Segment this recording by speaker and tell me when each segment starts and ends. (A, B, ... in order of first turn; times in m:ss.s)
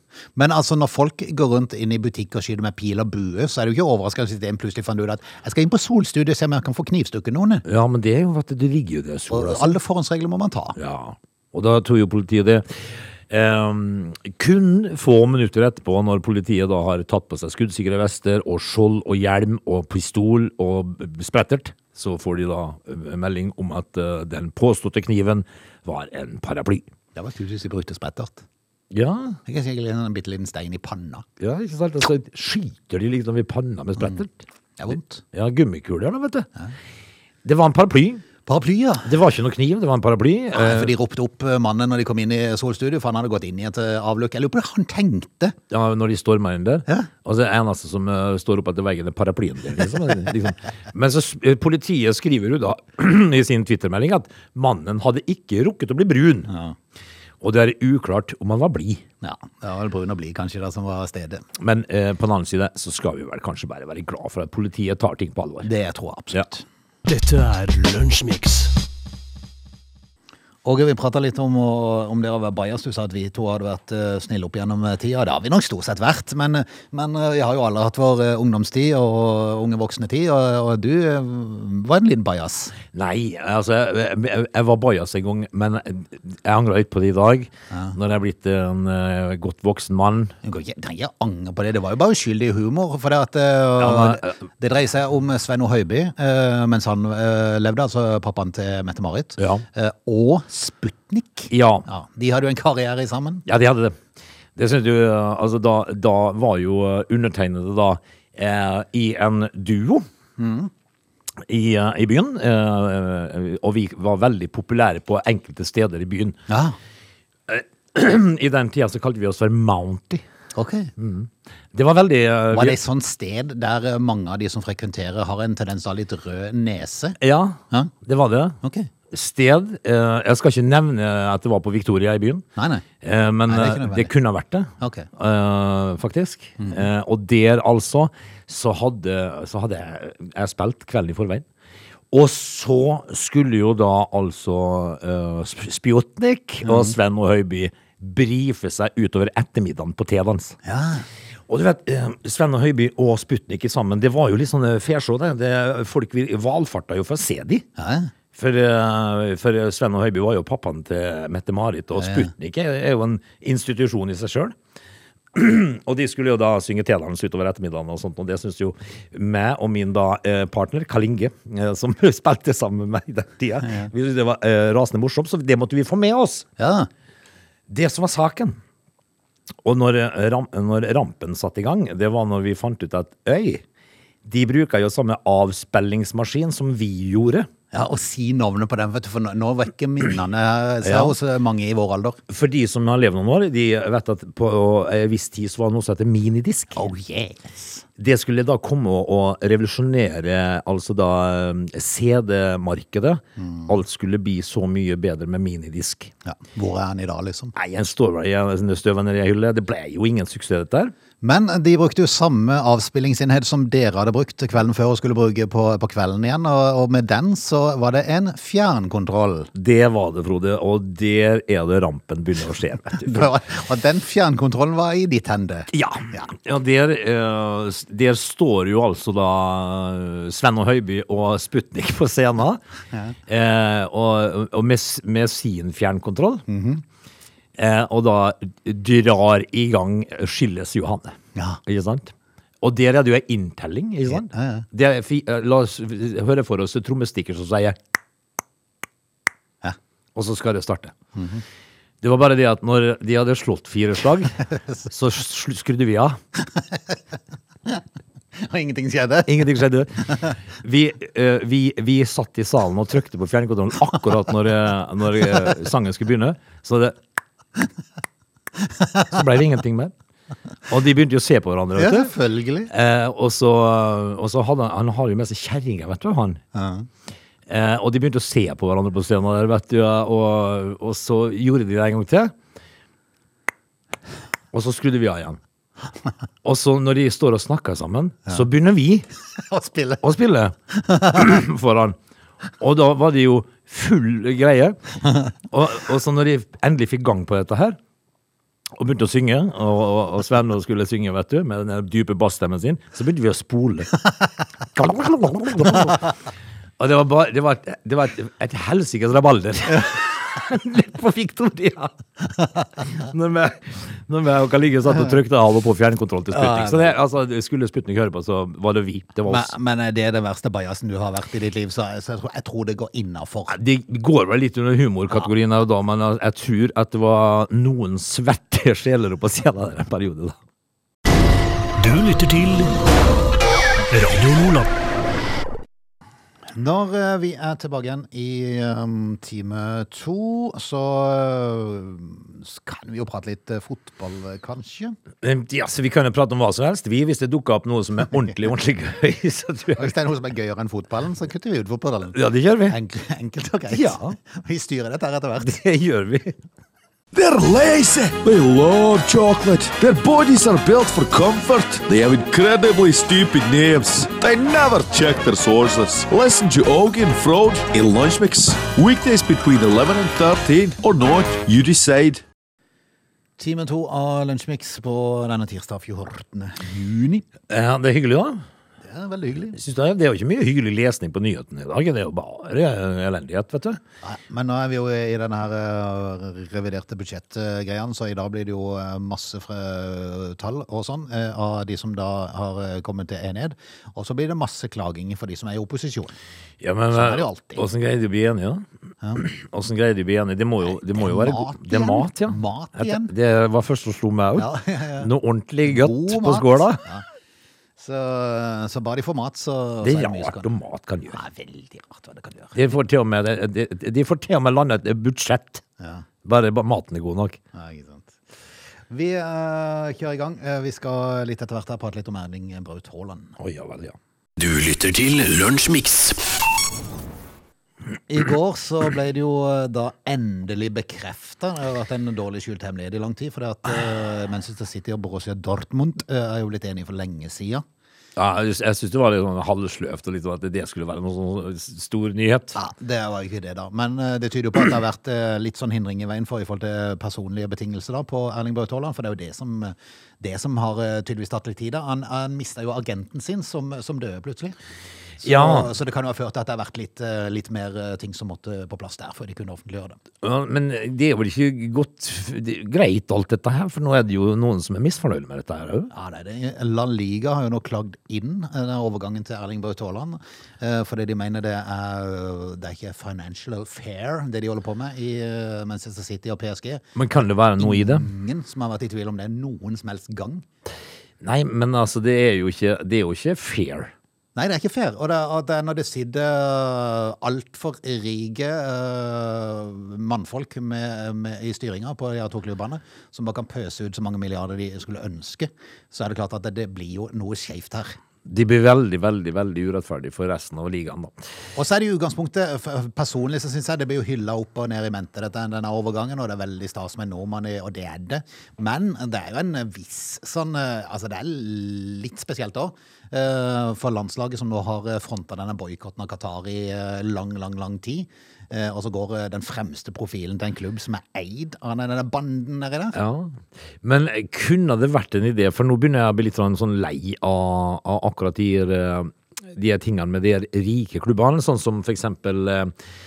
0:00.4-0:07.6 A
0:07.6-0:09.8 B
0:09.3-0:10.8 A
0:10.8-0:26.8 B
0:27.2-0:28.4 A
0:28.9-0:29.4 B
0:29.5-0:31.3 A
0:31.4-0:34.4 B
0:34.8-0:35.2 A
0:35.3-0:36.5 B
0:37.4-0:38.2 B
0:38.4-0:39.1 A
0:39.0-0:40.9 B
0:40.5-0:45.6 A
0:45.7-0:56.5 B
0:56.5-0:56.8 A
0:57.4-0:59.0 B
0:59.2-1:01.4 A
1:01.6-1:05.7 B
1:05.6-1:06.6 A
1:07.1-1:08.7 C
1:10.6-1:22.8 A
1:22.9-1:30.3 B
1:30.4-1:43.4 A
1:33.8-1:34.4 B
1:39.4-1:39.6 B
1:41.5-1:41.8 B
1:43.5-1:44.0 B
1:44.6-1:50.0 B
1:50.4-1:50.7 A
1:51.5-1:56.4 B
1:56.5-1:56.8 A
1:57.5-2:00.2 B
2:00.6-2:00.9 A
2:01.0-2:02.8 B
2:02.5-2:07.2 A
2:07.2-2:08.6 B
2:08.6-2:08.9 A
2:09.1-2:12.4 B
2:12.6-2:12.8 A
2:13.0-2:21.4 B
2:13.5-2:14.1 A
2:14.8-2:15.1 A
2:22.1-2:30.6 B
2:26.6-2:26.9 A
2:30.6-2:31.1 A
2:31.5-2:37.7 B
2:37.8-2:38.1 A
2:38.4-2:44.6 B
2:42.0-2:42.3 A
2:45.3-2:56.5 B
2:53.6-2:53.9 A
2:56.6-2:56.9 A
2:57.7-2:58.6 B
2:59.6-3:03.6 B
3:04.2-3:07.5 B
3:07.7-3:12.2 A
3:10.8-3:11.2 B
3:12.3-3:16.8 B
3:16.8-3:17.8 A
3:18.0-3:26.1 B
3:23.4-3:23.7 A
3:26.2-3:27.6 A
3:27.6-3:30.9 B
3:31.2-3:39.5 A
3:39.5-3:43.3 B
3:42.9-3:46.3 A
3:45.7-3:52.6 B
3:53.3-3:56.4 B
3:56.5-3:56.8 A
3:57.6-4:07.8 B
4:01.4-4:01.6 A
4:04.1-4:04.6 A
4:10.2-4:11.0 B
4:11.2-4:11.4 A
4:12.0-4:16.2 B
4:18.4-4:19.5 A
4:19.3-4:27.0 B
4:29.1-4:29.9 B
4:30.7-4:32.1 B
4:31.8-4:32.7 A
4:32.7-4:36.4 B
4:36.5-4:36.9 A
4:37.5-4:42.3 B
4:44.5-4:45.4 B
4:46.4-4:49.1 B
4:49.4-4:50.0 A
4:50.0-4:52.0 B
4:52.6-4:54.8 B
4:55.5-4:57.8 B
4:58.8-5:04.0 B
5:04.7-5:06.1 B
5:06.8-5:12.0 B
5:12.8-5:19.5 B
5:16.3-5:17.0 A
5:19.3-5:23.6 A
5:23.5-5:30.4 B
5:31.8-5:32.8 C
5:33.9-5:34.7 C
5:36.5-5:45.0 A
5:45.2-5:49.9 B
5:49.8-5:55.5 A
5:52.1-5:52.8 B
5:53.7-5:54.2 B
5:55.4-5:56.4 B
5:57.1-6:12.2 D
6:13.4-6:17.2 A
6:17.5-6:18.4 B
6:18.9-6:19.6 A
6:19.5-6:23.8 B
6:24.0-6:36.1 A
6:36.6-6:46.8 B
6:36.9-6:37.7 A
6:40.7-6:43.1 A
6:44.4-6:45.1 A
6:45.6-6:47.0 A
6:47.8-6:50.5 A
6:49.8-6:51.2 B
6:51.1-6:52.6 A
6:52.6-6:55.6 B
6:55.8-6:56.0 A
6:56.2-6:57.4 B
6:57.5-6:58.2 A
6:58.9-7:03.4 A
7:03.4-7:04.0 B
7:04.4-7:06.2 C
7:08.1-7:17.6 A
7:18.2-7:22.6 B
7:22.6-7:34.6 A
7:35.2-7:40.0 A
7:35.2-7:35.7 B
7:40.2-7:45.9 B
7:45.9-7:56.8 A
7:57.0-7:58.1 B
7:57.6-8:00.4 A
8:01.2-8:03.9 B
8:04.4-8:18.0 A
8:18.2-8:21.1 B
8:21.6-8:43.0 A
8:42.9-8:52.7 B